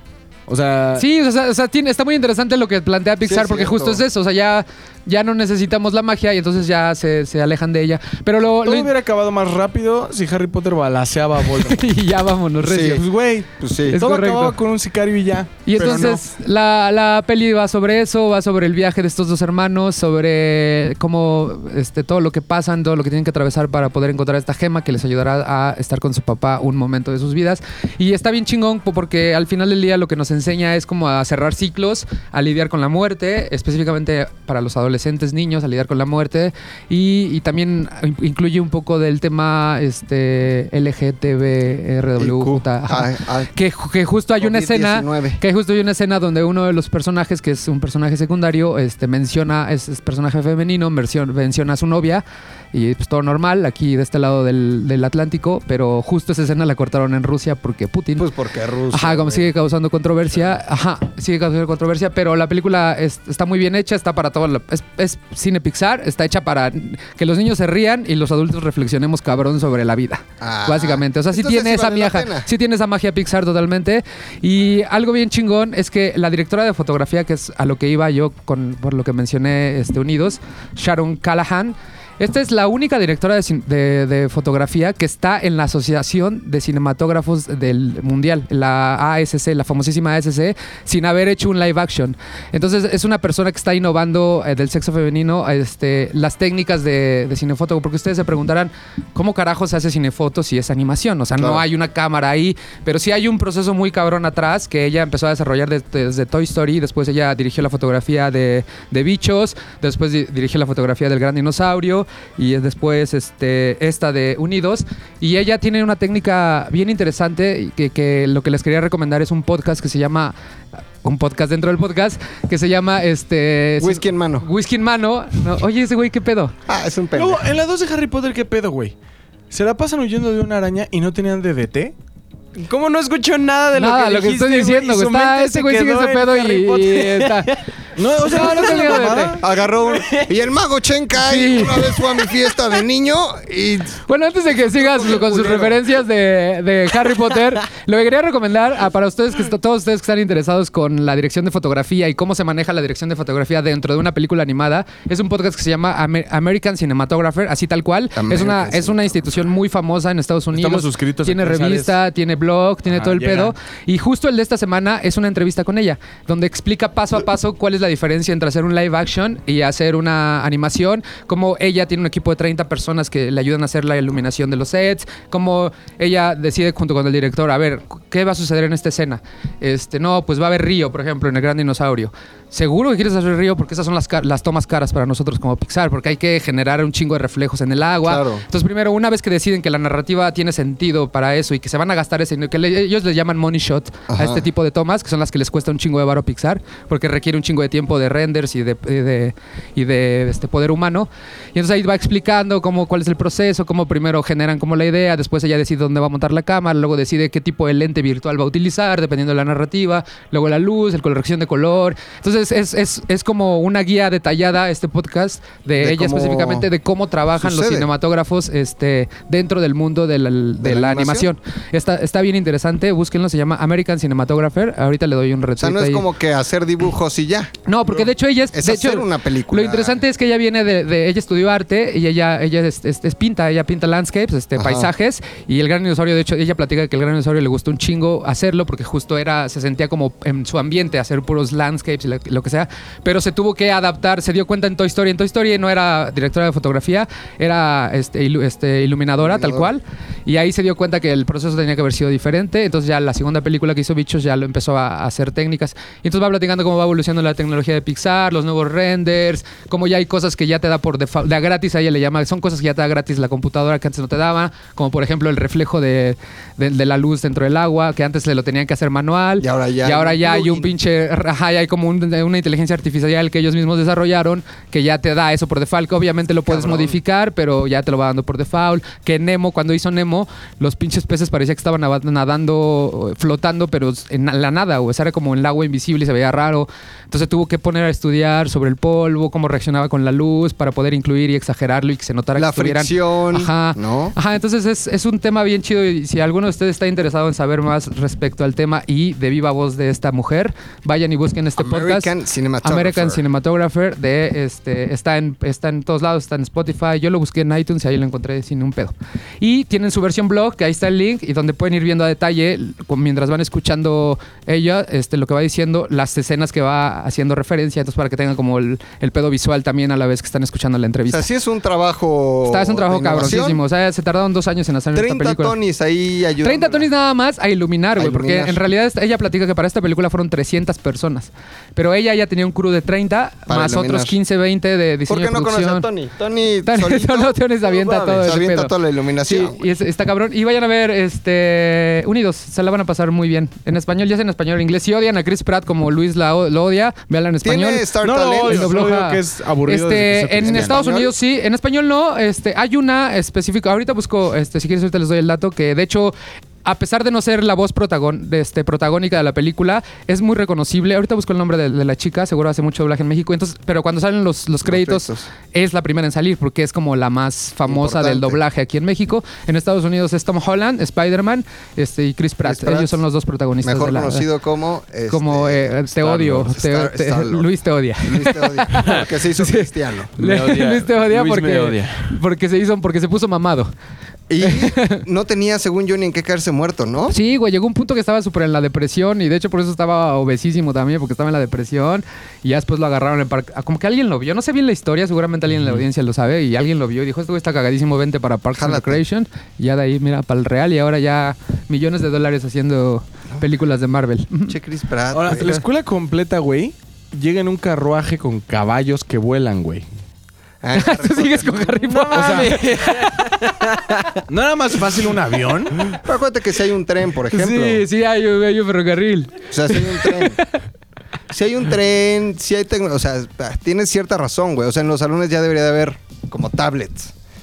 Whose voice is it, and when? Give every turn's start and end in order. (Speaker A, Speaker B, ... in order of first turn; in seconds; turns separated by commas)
Speaker A: 0.5-1.1, Speaker B: 1.0-8.9, Speaker C: 3.2-4.0, Speaker A: 8.6-11.9, Speaker B: 11.4-13.0, Speaker C: 12.6-13.0, Speaker A: 12.8-16.3, Speaker C: 13.6-14.0, Speaker B: 13.9-14.6, Speaker B: 15.6-58.3, Speaker C: 15.8-16.1, Speaker C: 42.2-43.5, Speaker C: 44.4-45.4, Speaker C: 58.2-59.5, Speaker B: 58.9-120.3, Speaker C: 70.4-72.5, Speaker C: 101.4-101.6, Speaker B: 121.0-126.5, Speaker C: 123.8-124.5, Speaker C: 126.7-127.5, Speaker A: 127.1-128.9, Speaker A: 129.5-131.9, Speaker D: 132.5-137.6, Speaker B: 133.7-137.5, Speaker A: 137.9-139.4, Speaker B: 138.2-139.4, Speaker D: 138.3-139.1, Speaker C: 139.4-145.8, Speaker D: 139.7-140.3, Speaker B: 141.2-141.9, Speaker B: 144.1-226.1, Speaker C: 158.1-159.5, Speaker A: 160.5-161.9, Speaker A: 162.9-163.5, Speaker C: 188.0-188.4, Speaker C: 194.1-194.4, Speaker C: 215.8-216.7, Speaker C: 217.4-217.9, Speaker C: 220.6-221.3, Speaker C: 225.6-230.0, Speaker B: 227.7-302.1, Speaker C: 234.6-234.9, Speaker C: 249.2-249.7, Speaker C: 269.4-270.7, Speaker C: 276.4-277.0, Speaker C: 292.4-294.1, Speaker C: 301.6-303.2, Speaker B: 302.6-321.3, Speaker C: 321.1-323.6, Speaker B: 322.5-325.6, Speaker C: 324.9-326.9, Speaker B: 326.4-335.9, Speaker C: 327.9-328.6, Speaker C: 333.5-334.1, Speaker C: 335.1-339.7, Speaker B: 336.6-374.2, Speaker C: 347.4-348.7, Speaker A: 348.0-350.8, Speaker C: 350.4-351.1, Speaker C: 364.6-365.3, Speaker C: 367.7-368.4, Speaker C: 372.4-373.0, Speaker C: 373.6-377.5, Speaker B: 375.1-383.7, Speaker C: 378.0-380.1, Speaker D: 380.2-382.2, Speaker C: 384.3-387.2, Speaker B: 384.4-385.0, Speaker B: 387.1-404.6, Speaker C: 398.5-399.0, Speaker C: 404.5-405.5, Speaker A: 405.1-409.9, Speaker B: 405.4-405.6, Speaker C: 410.6-412.0, Speaker B: 410.7-413.3, Speaker D: 412.0-413.9, Speaker A: 412.1-412.6, Speaker A: 414.3-415.9, Speaker C: 415.9-417.8, Speaker B: 417.3-420.6, Speaker C: 419.5-420.4, Speaker C: 421.3-427.1